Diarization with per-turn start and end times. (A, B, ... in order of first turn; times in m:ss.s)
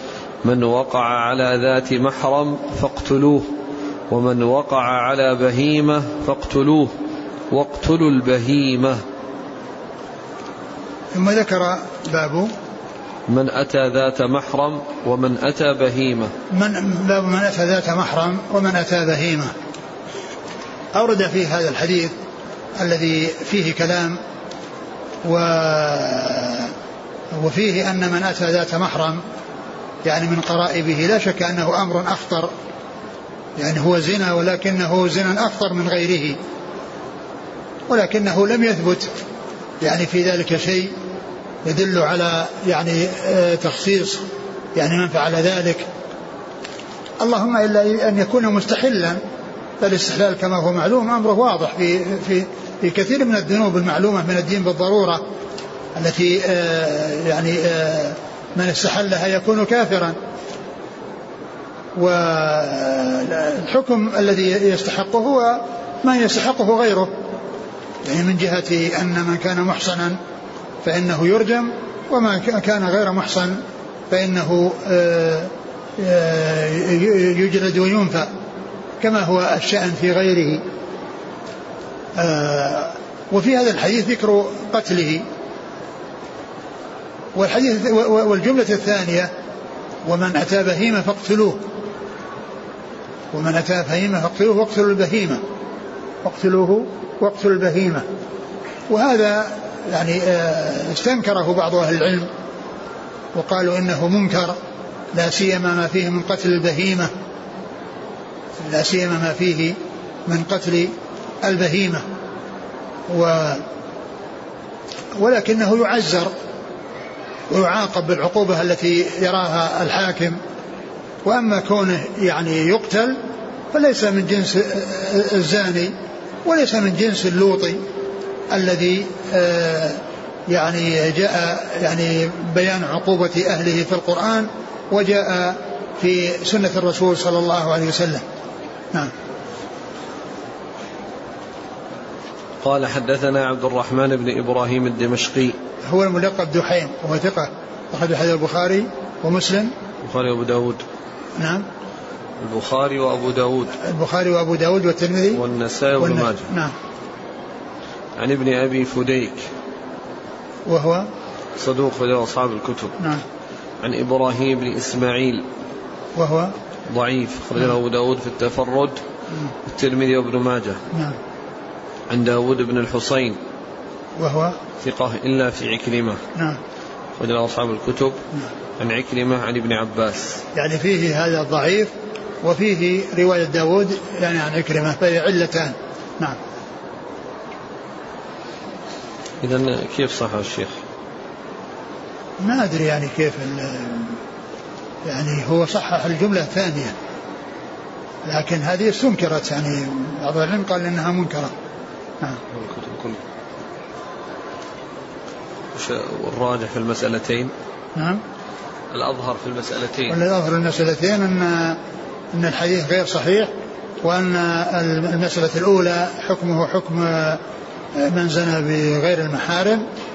0:00.4-0:03.5 A
0:04.1-0:06.9 A
0:07.5-0:09.0 A
0:11.1-0:12.5 B
0:13.3-0:16.3 A
0:16.5-0:19.5 B
0:20.9-0:22.1 B
0:22.8-0:24.2 B
0:25.2-0:26.7 B
0:27.3-0:29.2 B
0:30.0-0:32.5 B
0:33.6-0:36.4 B
0:37.9-0:39.1 B
0:39.8-0:40.9 B
0:41.6-0:44.2 B
0:44.7-0:45.9 B
0:47.2-0:49.2 B
0:49.8-0:55.2 B
0:56.0-1:00.2 B
1:02.0-1:07.1 B
1:08.0-1:10.2 B
1:10.8-1:13.6 B
1:14.1-1:18.3 B
1:19.0-1:20.6 B
1:22.2-1:25.2 B
1:27.3-1:29.3 B
1:30.0-1:31.7 B
1:33.3-1:35.4 B
1:36.2-1:38.0 B
1:38.9-1:42.3 B
1:43.3-1:44.6 B
1:45.1-1:47.1 B
1:48.6-1:50.9 B
1:51.4-1:52.0 B
1:53.1-1:53.6 B
1:55.2-1:56.3 B
1:57.5-2:00.4 B
2:01.2-2:03.2 B
2:03.7-2:05.9 B
2:06.4-2:07.8 B
2:08.5-2:18.2 B
2:22.6-2:25.6 A
2:25.8-2:29.7 B
2:30.0-2:30.8 A
2:31.4-2:31.6 B
2:32.4-2:33.8 A
2:33.7-2:35.4 B
2:35.3-2:36.5 A
2:36.0-2:36.7 B
2:38.2-2:39.5 A
2:40.6-2:41.1 B
2:41.6-2:43.0 A
2:43.8-2:45.4 A
2:46.2-2:46.5 B
2:46.9-2:49.0 A
2:49.6-2:50.8 A
2:52.1-2:53.4 A
2:54.2-2:54.6 B
2:54.8-2:56.2 A
2:57.2-2:58.2 A
2:58.8-3:00.4 A
3:00.5-3:01.9 B
3:02.4-3:06.4 B
3:09.4-3:10.8 A
3:12.4-3:14.2 B
3:15.0-3:16.9 B
3:18.2-3:21.5 B
3:22.5-3:23.2 A
3:25.7-3:27.5 A
3:28.0-3:28.2 B
3:28.9-3:30.2 A
3:30.1-3:31.8 B
3:32.3-3:33.5 B
3:34.0-3:37.4 B
3:38.0-3:39.8 B